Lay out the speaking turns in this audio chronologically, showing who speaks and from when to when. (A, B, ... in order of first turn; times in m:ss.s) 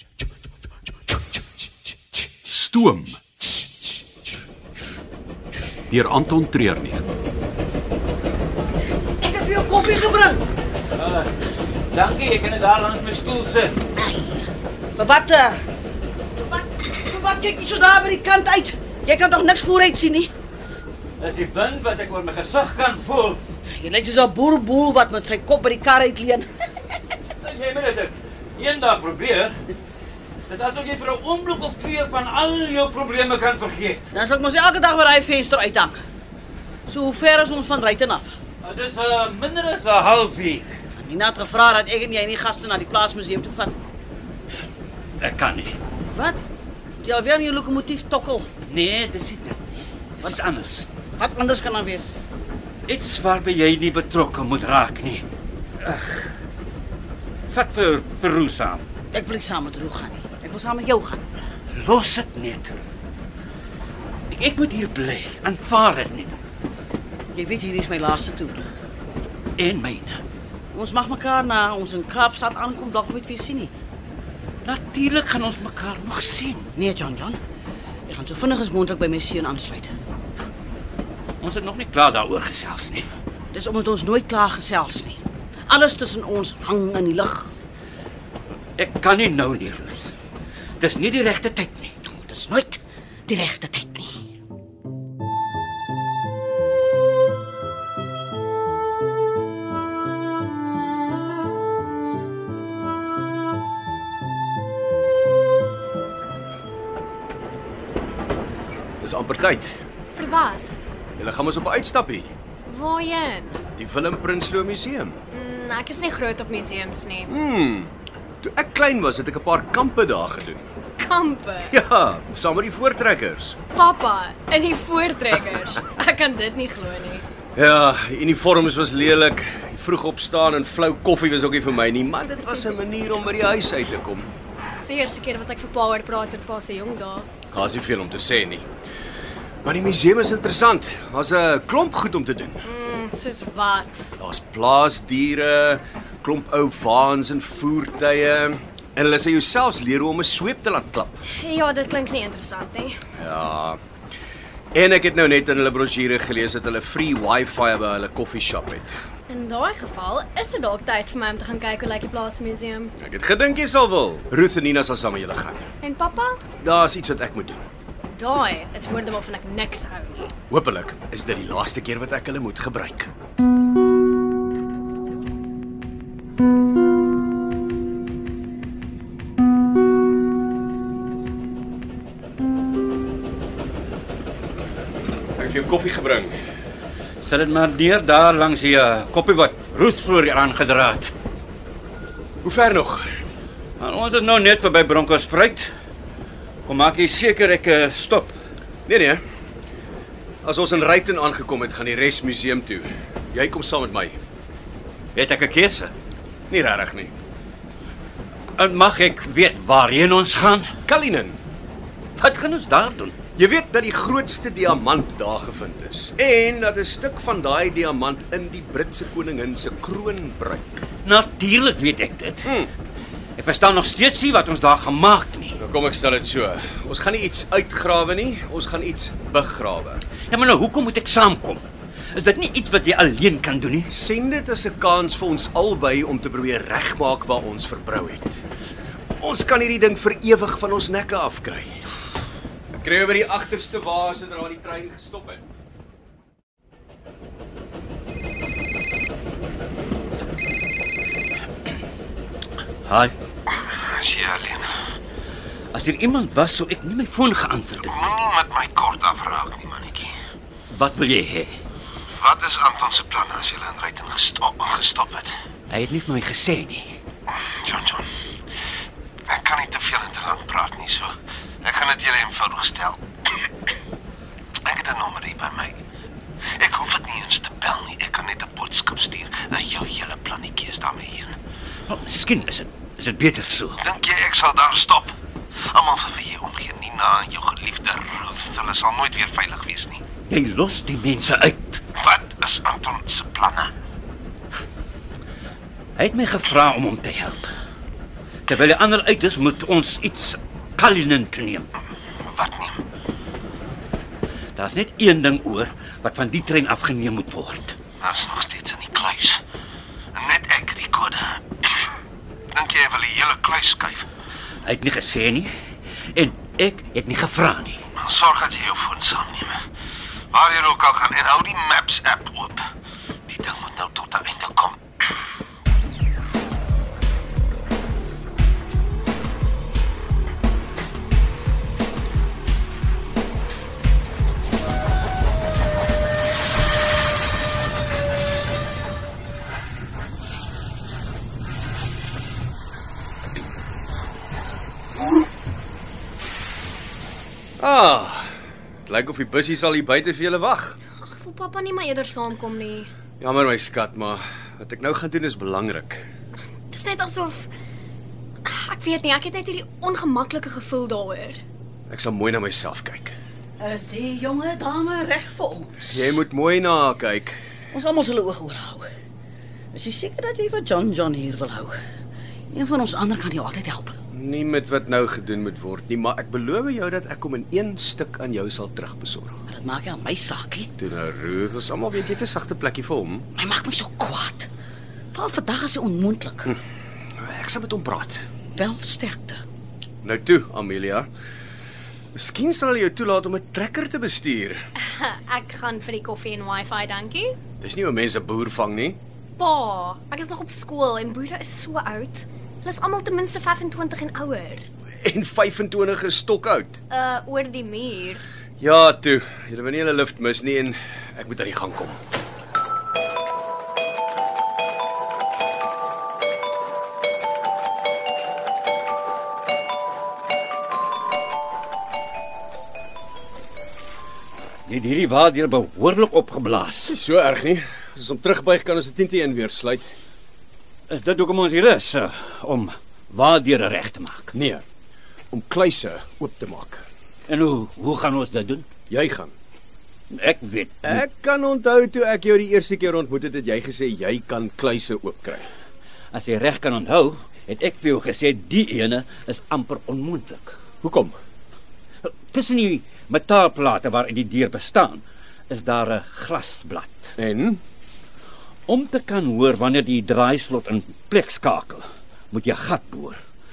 0:02.4-0:03.2 A
0:05.9-0:07.0 A
0:09.2-0:10.4 B
0:11.0-0:11.3 C
0:11.9-0:13.8 C
0:14.0-0:15.6 B
0:16.4-0:20.3 B
0:21.2-0:23.4 C
0:23.7-0:27.0 B
0:27.4-0:29.5 C
0:30.5-0:34.1 C
0:34.1-0:36.0 B
0:36.9-0:38.3 B
0:38.6-0:40.8 C
0:41.0-0:43.8 B
0:45.2-0:45.8 C
0:46.1-0:46.4 B
0:47.0-0:48.5 B
0:48.6-0:50.9 C
0:51.2-0:52.0 B
0:52.9-0:55.2 C
0:55.8-0:56.3 C
0:57.5-0:58.9 C
0:59.1-1:01.2 B
1:01.7-1:02.8 C
1:04.3-1:06.6 C
1:07.3-1:08.7 B
1:09.6-1:10.2 C
1:10.7-1:13.7 B
1:14.6-1:16.7 C
1:16.7-1:17.4 B
1:18.1-1:19.9 B
1:21.4-1:23.0 C
1:23.5-1:27.5 B
1:28.8-1:30.1 C
1:30.8-1:32.0 C
1:32.0-1:34.2 B
1:49.0-1:49.7 D
1:50.2-1:50.8 E
1:51.2-1:52.3 D
1:52.6-1:53.6 E
1:53.8-1:55.2 D
1:55.3-1:57.3 E
1:57.3-2:00.7 D
2:01.0-2:01.7 E
2:01.7-2:03.6 D
2:03.7-2:07.2 E
2:07.5-2:14.3 D
2:14.8-2:17.3 E
2:17.5-2:18.6 D
2:19.6-2:22.6 D
2:22.6-2:24.1 E
2:24.2-2:31.2 D
2:31.3-2:33.0 E
2:33.2-2:33.8 D
2:34.7-2:38.9 D
2:39.3-2:42.9 E
2:43.0-2:45.7 D
2:45.8-2:46.4 E
2:46.6-2:47.6 D
2:48.1-2:50.3 E
2:50.5-2:53.1 D
3:05.4-3:06.4 D
3:07.2-3:11.1 C
3:12.4-3:13.1 D
3:13.8-3:15.7 C
3:16.6-3:18.3 C
3:18.9-3:19.2 D
3:20.4-3:24.2 D
3:25.1-3:25.9 C
3:26.5-3:27.1 D
3:28.6-3:30.7 C
3:30.8-3:31.4 D
3:32.2-3:33.1 C
3:33.4-3:40.8 D
3:41.0-3:42.5 C
3:42.4-3:42.7 D
3:43.4-3:45.6 C
3:45.6-3:50.0 D
3:50.3-3:53.9 C
3:53.9-3:58.4 D
3:59.1-4:01.8 D
4:02.8-4:05.4 D
4:12.8-4:13.1 C
4:13.5-4:14.7 F
4:15.7-4:18.0 C
4:17.8-4:20.1 F
4:20.7-4:21.6 C
4:22.2-4:25.3 F
4:25.7-4:27.0 C
4:27.4-4:28.1 F
4:29.3-4:33.5 F
4:34.6-4:35.8 F
4:36.6-4:41.3 F
4:41.9-4:43.8 C
4:43.8-4:45.2 F
4:45.7-4:50.0 F
4:50.3-4:51.8 C
4:52.0-4:53.7 F
4:56.0-4:57.5 C
4:58.5-5:01.7 C
5:02.2-5:02.8 F
5:04.5-5:07.8 C
5:08.0-5:09.4 F
5:10.1-5:11.4 F
5:12.5-5:14.1 F
5:14.6-5:15.5 C
5:16.1-5:17.8 C
5:18.0-5:19.6 F
5:20.3-5:22.6 F
5:23.3-5:24.8 F
5:47.6-5:48.3 D
5:48.9-5:50.8 D
5:51.0-5:52.9 E
5:53.2-5:56.0 D
5:56.7-5:57.5 E
5:58.4-6:01.4 E
6:01.9-6:03.2 D
6:03.6-6:05.9 B
6:05.8-6:07.4 D
6:07.7-6:08.9 B
6:09.7-6:11.8 B
6:12.5-6:13.9 B
6:14.1-6:19.4 D
6:19.5-6:20.7 B
6:20.8-6:23.3 D
6:23.3-6:24.5 B
6:25.1-6:26.5 B
6:27.2-6:28.2 D
6:28.6-6:29.4 B
6:30.0-6:31.1 D
6:32.1-6:34.6 D
6:34.8-6:37.3 E
6:37.6-6:39.0 D
6:39.4-6:44.7 E
6:45.0-6:46.8 D
6:46.9-6:48.2 E
6:48.6-6:52.0 D
7:04.6-7:06.9 C
7:06.9-7:09.9 D
7:10.9-7:14.3 C
7:14.3-7:14.6 D
7:15.3-7:16.8 D
7:17.3-7:18.6 C
7:18.9-7:19.3 D
7:20.1-7:21.0 C
7:20.8-7:25.4 D
7:26.1-7:30.6 C
7:30.8-7:31.2 D
7:32.0-7:37.1 C
7:37.2-7:37.6 D
7:38.7-7:43.2 C